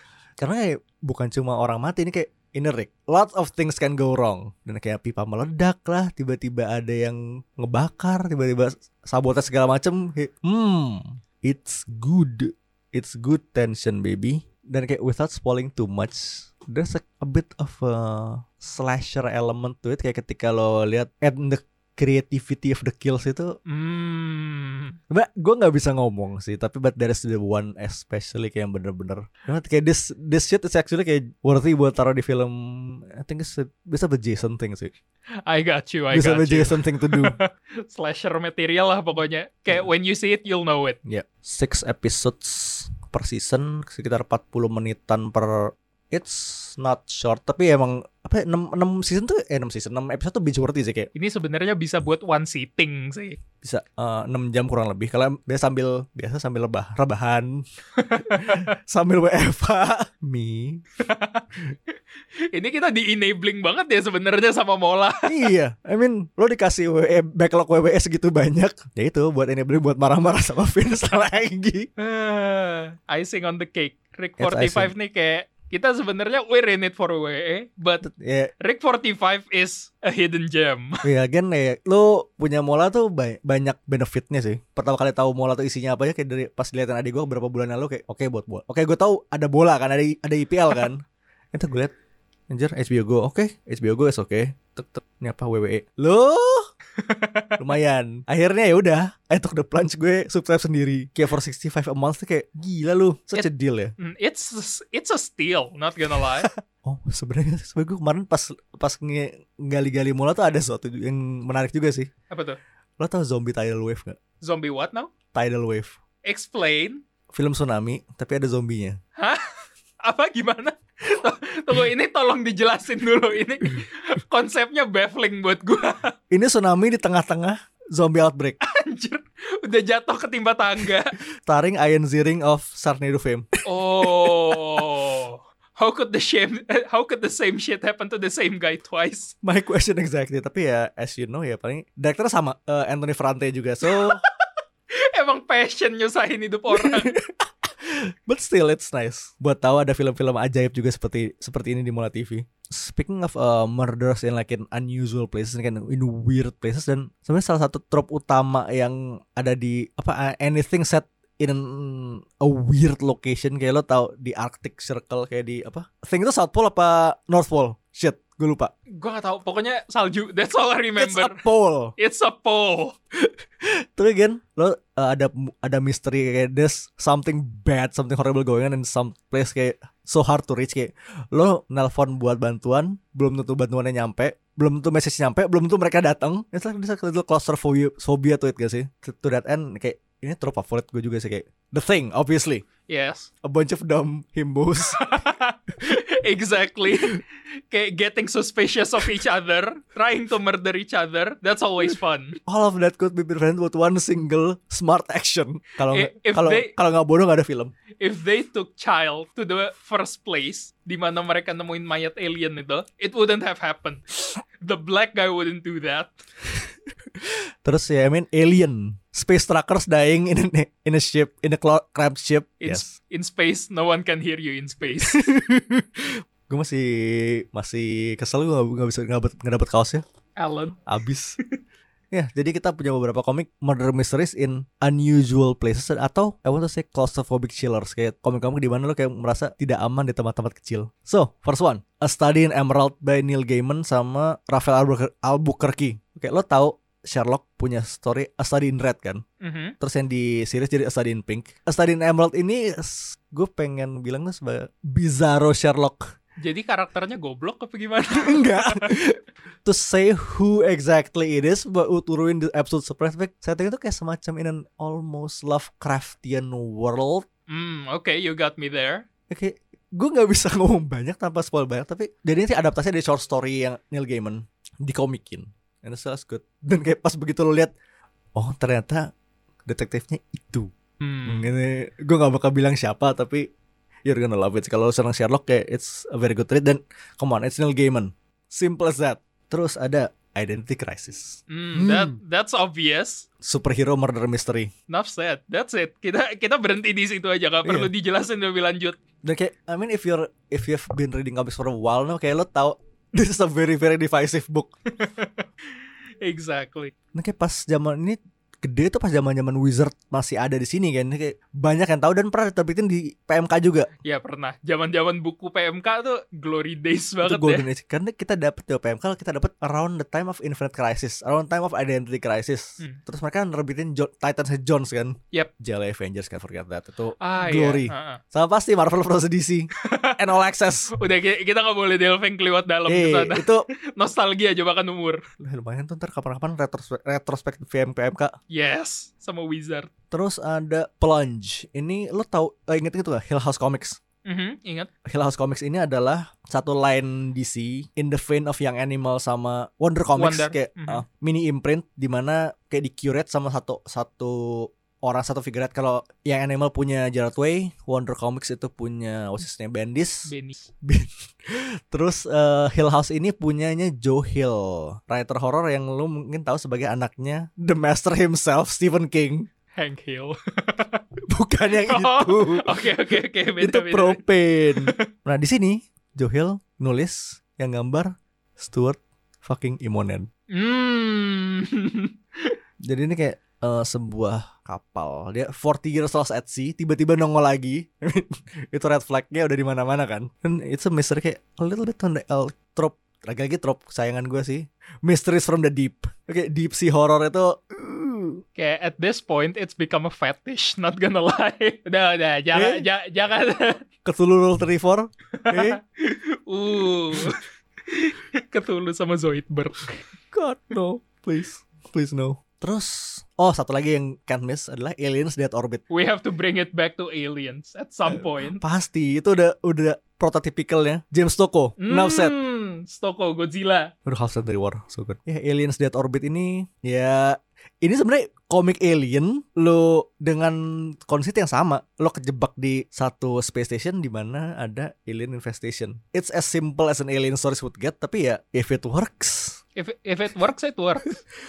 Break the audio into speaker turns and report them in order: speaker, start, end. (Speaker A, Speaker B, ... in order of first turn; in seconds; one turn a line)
Speaker A: 0.4-23.5
Speaker B: 23.6-25.0
Speaker A: 25.1-34.9
Speaker B: 35.5-41.0
Speaker A: 36.1-37.4
Speaker A: 41.0-51.1
Speaker B: 51.1-53.4
Speaker A: 53.6-57.6
Speaker B: 58.0-58.6
Speaker A: 58.3-60.8
Speaker B: 61.0-61.6
Speaker B: 62.5-65.5
Speaker A: 65.2-71.9
Speaker B: 72.0-81.0
Speaker A: 74.4-74.9
Speaker A: 78.0-78.5
Speaker A: 81.0-91.9
Speaker A: 92.5-96.7
Speaker B: 97.0-97.6
Speaker A: 97.6-103.9
Speaker B: 104.0-106.5
Speaker A: 106.4-112.1
Speaker B: 112.3-112.6
Speaker A: 113.0-114.2
Speaker B: 114.4-115.1
Speaker A: 115.3-116.0
Speaker B: 116.2-117.0
Speaker A: 117.3-119.0
Speaker B: 119.2-119.4
Speaker B: 120.0-126.1
Speaker A: 126.3-128.6
Speaker B: 128.6-131.2
Speaker A: 131.5-134.8
Speaker B: 133.6-139.3
Speaker A: 139.4-144.2
Speaker B: 143.8-144.3
Speaker B: 144.9-147.2
Speaker A: 146.7-168.7
Speaker B: 168.9-171.4
Speaker A: 171.0-171.9
Speaker B: 172.0-173.0
Speaker A: 173.9-192.6
Speaker B: 192.9-193.3
Speaker A: 193.4-195.3
Speaker B: 194.8-202.4
Speaker A: 202.5-207.7
Speaker B: 205.9-206.7
Speaker B: 208.0-216.1
Speaker A: 217.6-222.9
Speaker B: 222.6-225.3
Speaker A: 225.0-230.0
Speaker B: 230.4-230.8
Speaker A: 230.9-231.4
Speaker A: 232.1-249.2
Speaker B: 249.4-249.7
Speaker A: 249.8-256.1
Speaker B: 256.4-259.0
Speaker A: 258.1-267.2
Speaker B: 267.5-269.0
Speaker A: 269.3-277.7
Speaker A: 278.4-279.1
Speaker A: 279.7-280.7
Speaker B: 281.0-281.5
Speaker A: 281.2-283.5
Speaker A: 284.1-292.2
Speaker B: 291.5-293.2
Speaker A: 293.4-294.7
Speaker B: 294.9-299.0
Speaker A: 297.6-297.9
Speaker A: 299.2-304.7
Speaker B: 305.0-305.4
Speaker B: 306.2-306.9
Speaker A: 307.1-313.9
Speaker B: 314.0-317.7
Speaker A: 317.2-330.9
Speaker B: 327.2-328.2
Speaker B: 329.8-330.3
Speaker B: 330.9-335.2
Speaker A: 332.9-333.7
Speaker A: 335.4-338.3
Speaker B: 338.5-339.9
Speaker A: 340.1-344.0
Speaker B: 344.2-344.9
Speaker A: 345.0-360.3
Speaker B: 350.1-351.0
Speaker B: 360.2-360.7
Speaker A: 360.8-369.5
Speaker B: 369.7-371.0
Speaker A: 371.2-380.3
Speaker B: 371.7-374.2
Speaker B: 374.7-375.1
Speaker B: 380.5-382.6
Speaker A: 382.8-398.4
Speaker B: 398.5-403.8
Speaker A: 402.5-402.9
Speaker A: 404.0-405.8
Speaker B: 405.3-410.0
Speaker A: 410.3-415.8
Speaker B: 415.9-418.6
Speaker A: 418.1-422.4
Speaker B: 421.8-423.9
Speaker A: 424.1-439.6
Speaker B: 439.8-441.2